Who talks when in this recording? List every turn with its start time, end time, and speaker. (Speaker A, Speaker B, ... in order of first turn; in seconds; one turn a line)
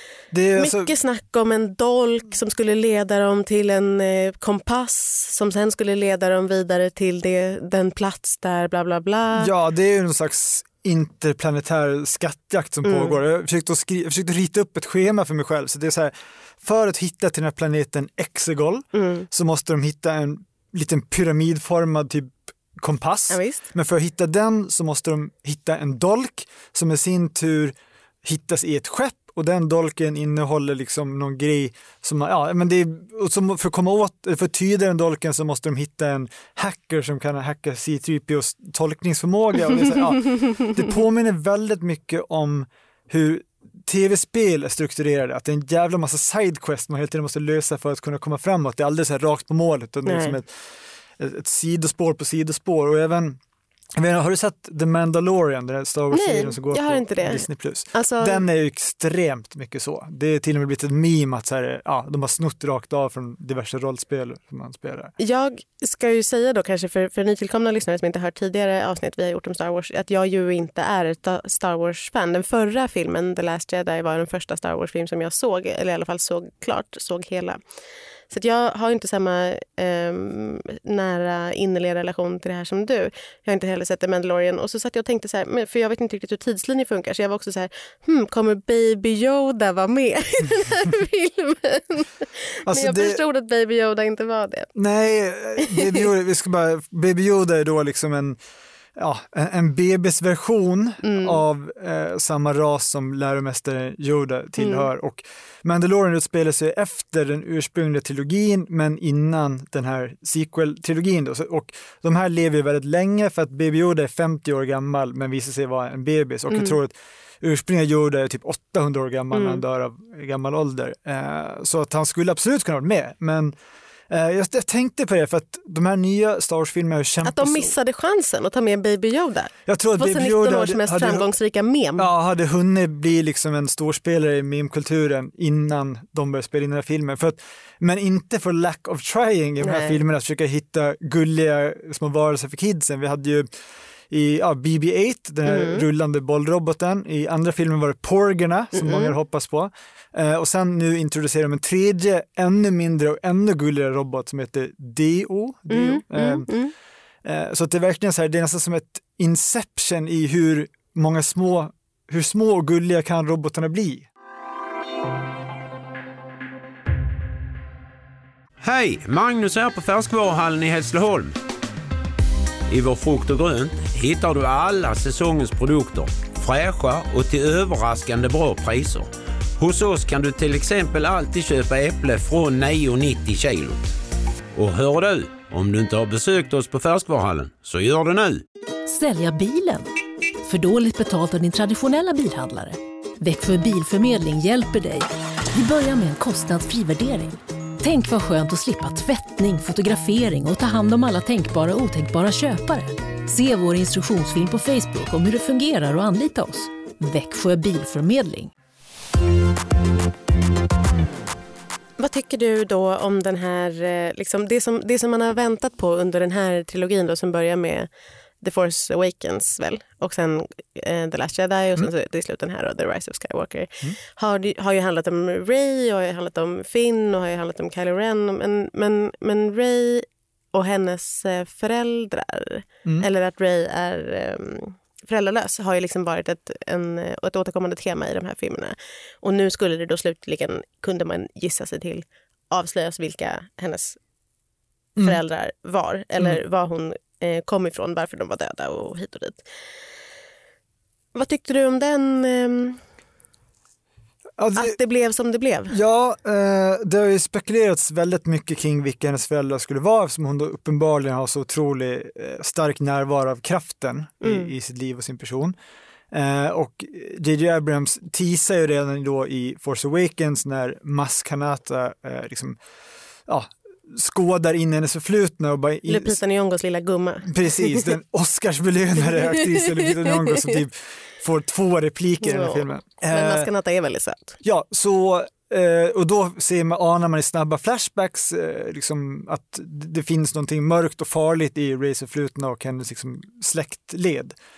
Speaker A: 0.3-0.9
Speaker B: 0.6-9.5
Speaker A: 9.3-53.4
Speaker B: 12.8-13.2
Speaker B: 18.9-19.3
Speaker B: 23.3-23.6
Speaker B: 40.1-40.8
Speaker B: 50.1-50.4
Speaker A: 54.0-65.1
Speaker B: 56.1-58.4
Speaker B: 65.2-77.6
Speaker B: 78.3-94.7
Speaker A: 92.6-93.2
Speaker A: 94.8-98.4
Speaker B: 95.6-96.1
Speaker A: 99.0-123.5
Speaker B: 101.0-101.4
Speaker B: 104.6-104.9
Speaker B: 116.5-116.8
Speaker B: 119.3-119.6
Speaker A: 124.1-127.7
Speaker B: 127.2-132.1
Speaker A: 129.7-131.2
Speaker A: 132.0-143.5
Speaker B: 139.6-140.0
Speaker A: 144.1-156.5
Speaker B: 145.5-145.9
Speaker B: 148.8-149.1
Speaker B: 155.7-156.7
Speaker A: 157.2-164.1
Speaker C: 168.6-171.3
Speaker C: 172.7-184.0
Speaker C: 184.5-188.4
Speaker D: 188.9-189.9
Speaker D: 190.4-208.5
Speaker B: 212.0-217.9
Speaker B: 218.4-244.0
Speaker B: 245.0-249.4
Speaker B: 251.1-252.8
Speaker A: 254.4-254.8
Speaker B: 254.6-255.8
Speaker A: 255.7-265.5
Speaker B: 264.2-264.5
Speaker A: 266.1-272.6
Speaker A: 273.3-276.2
Speaker B: 275.9-277.9
Speaker A: 277.2-283.5
Speaker B: 279.0-280.6
Speaker B: 282.2-284.4
Speaker A: 284.4-294.4